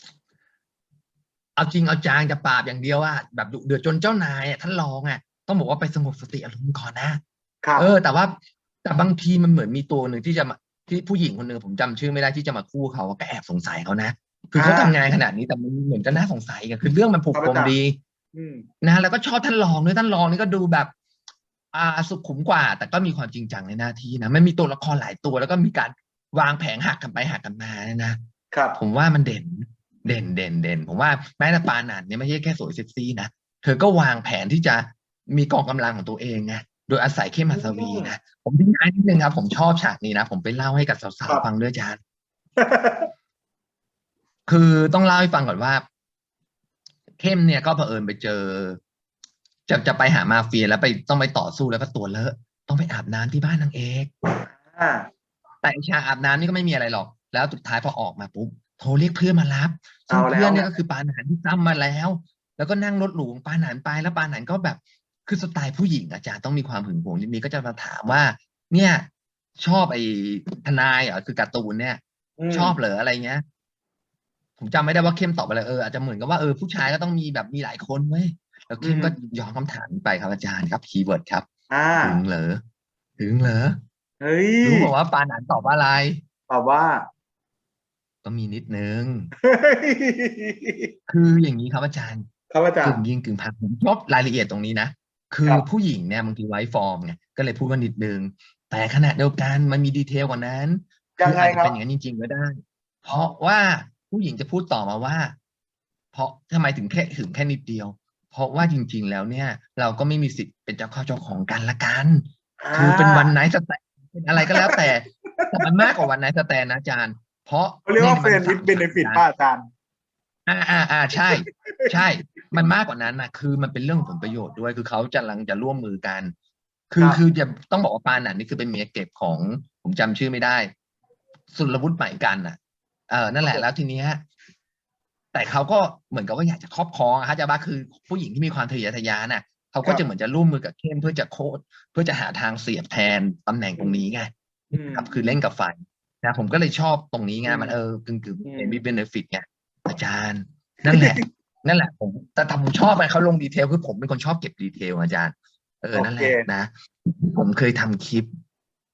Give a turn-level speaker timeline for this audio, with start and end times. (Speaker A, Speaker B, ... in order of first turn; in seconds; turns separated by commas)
Speaker A: 1.6-7.2, Speaker B: 7.6-7.9, Speaker A: 7.8-18.0, Speaker B: 14.6-15.0, Speaker B: 17.3-17.7, Speaker B: 18.3-18.7, Speaker A: 18.8-20.9, Speaker A: 21.7-28.2, Speaker B: 28.5-28.8, Speaker A: 28.8-42.0, Speaker B: 37.5-38.1, Speaker B: 42.6-43.1, Speaker A: 44.5-45.8, Speaker A: 47.2-48.8, Speaker A: 49.7-54.1, Speaker B: 54.5-55.1, Speaker A: 55.6-73.4, Speaker B: 60.1-60.8, Speaker B: 72.4-72.8, Speaker A: 74.6-81.5, Speaker B: 78.8-79.3, Speaker B: 81.7-82.2, Speaker A: 82.0-82.6, Speaker A: 83.2-83.8, Speaker B: 84.2-84.9, Speaker A: 84.6-86.2, Speaker B: 86.5-87.1, Speaker A: 88.2-89.3, Speaker B: 89.4-90.9, Speaker A: 91.1-92.3, Speaker B: 92.5-93.0, Speaker A: 92.8-105.4, Speaker B: 101.2-101.8, Speaker A: 106.1-119.2, Speaker B: 112.6-113.3, Speaker B: 114.5-114.8, Speaker B: 117.9-119.7, Speaker A: 120.5-126.3, Speaker B: 121.2-121.9, Speaker A: 126.9-130.7, Speaker A: 131.5-132.6, Speaker A: 133.1-134.2, Speaker A: 135.3-144.3, Speaker B: 144.7-145.4, Speaker A: 144.9-158.3, Speaker B: 147.4-147.8, Speaker B: 148.4-148.8, Speaker B: 150.9-151.2, Speaker B: 155.9-156.5